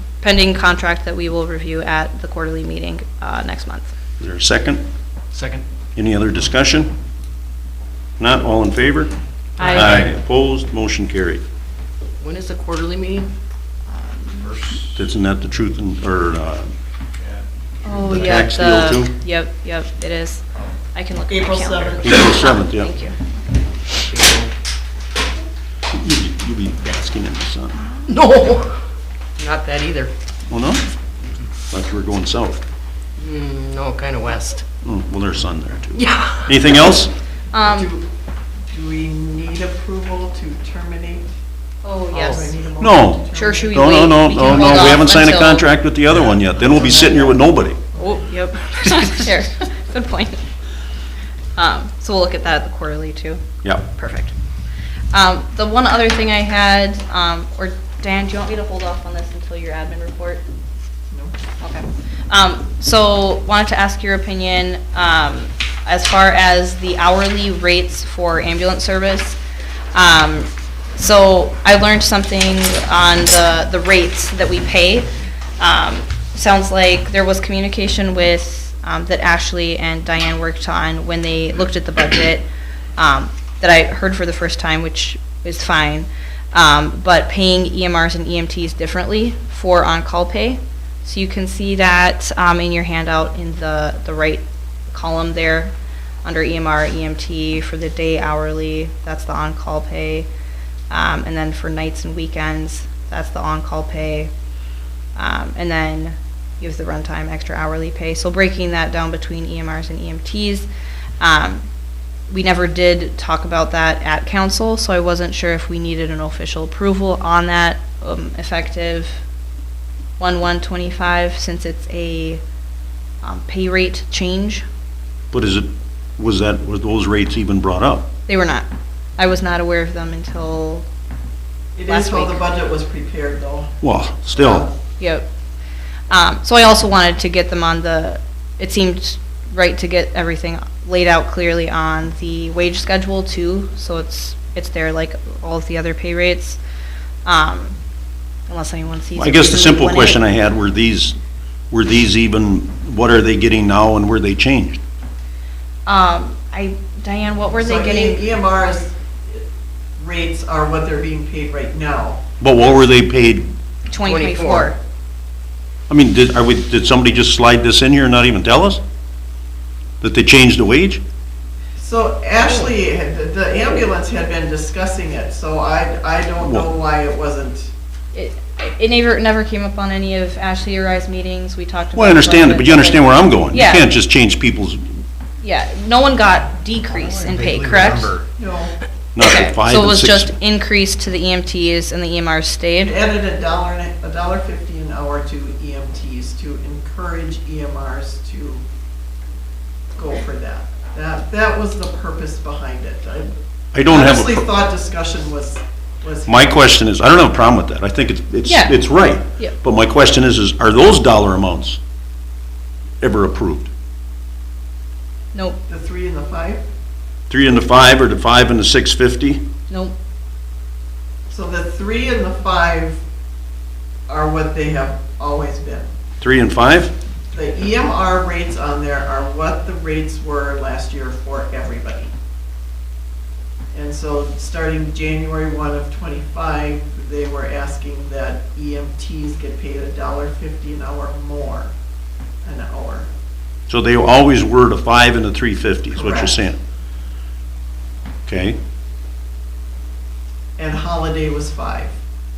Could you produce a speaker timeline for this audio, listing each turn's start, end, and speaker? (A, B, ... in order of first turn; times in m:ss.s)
0:00.2-0:04.0 A
0:04.2-0:04.8 B
0:05.3-0:05.6 C
0:06.0-0:06.9 B
0:08.2-0:09.1 B
0:09.6-0:10.1 A
0:09.6-0:10.1 C
0:09.7-0:11.4 B
0:12.2-0:13.3 C
0:13.9-0:14.6 A
0:14.9-0:16.7 B
0:17.8-0:23.2 A
0:18.0-0:19.1 B
0:21.3-0:22.2 D
0:22.0-0:22.9 B
0:24.1-0:24.5 C
0:25.9-0:27.8 B
0:28.1-0:28.8 C
0:29.4-0:30.1 C
0:30.5-0:30.8 B
0:31.7-0:32.6 B
0:33.2-0:34.6 C
0:34.8-0:37.1 B
0:35.9-0:36.6 C
0:37.5-0:38.0 A
0:37.6-0:38.1 D
0:38.7-0:41.2 D
0:41.8-0:42.5 A
0:42.1-0:42.5 C
0:42.1-0:44.1 D
0:42.8-0:47.8 B
0:43.3-0:45.7 A
0:44.7-0:45.0 D
0:46.6-0:48.2 D
0:48.0-0:50.4 A
0:51.6-0:54.3 A
0:55.1-1:00.4 A
1:01.6-1:09.4 A
1:09.9-1:15.1 A
1:15.6-1:22.5 A
1:23.0-1:35.7 A
1:36.2-1:40.3 A
1:40.9-1:44.3 A
1:45.2-1:50.7 A
1:51.2-1:51.6 A
1:52.3-1:59.2 A
2:00.2-2:02.4 A
2:03.2-2:04.6 A
2:05.3-2:08.1 B
2:08.3-2:08.7 A
2:09.2-2:10.9 A
2:11.8-2:13.8 D
2:11.9-2:12.4 A
2:13.8-2:14.7 B
2:14.4-2:14.7 D
2:15.0-2:15.3 A
2:16.1-2:26.6 A
2:27.2-2:27.8 A
2:28.5-2:30.2 A
2:29.2-2:31.2 B
2:31.7-2:34.8 B
2:35.9-2:38.3 A
2:37.5-2:39.4 D
2:40.0-2:42.2 D
2:42.4-2:43.5 B
2:43.9-2:44.8 A
2:44.0-2:44.7 C
2:45.9-2:48.8 B
2:50.0-2:51.0 B
2:51.8-2:57.7 D
2:52.4-2:52.7 C
2:56.4-2:56.7 B
2:58.1-3:03.9 A
3:02.0-3:04.8 B
3:05.4-3:08.2 A
3:07.2-3:07.8 B
3:08.4-3:08.8 D
3:09.2-3:10.3 B
3:09.2-3:13.0 A
3:12.8-3:18.6 D
3:20.0-3:23.4 D
3:23.7-3:24.5 B
3:23.9-3:26.6 D
3:26.3-3:31.8 B
3:28.4-3:28.8 A
3:33.0-3:33.7 B
3:35.3-3:35.6 A
3:35.7-3:36.6 D
3:37.3-3:39.4 B
3:39.7-3:39.9 A
3:41.3-3:43.0 D
3:44.1-3:45.9 D
3:46.2-3:46.9 B
3:47.3-3:52.1 D
3:53.7-4:01.7 D
4:02.4-4:03.1 D
4:03.7-4:06.6 B
4:05.9-4:06.4 D
4:08.3-4:08.6 B
4:10.6-4:12.0 D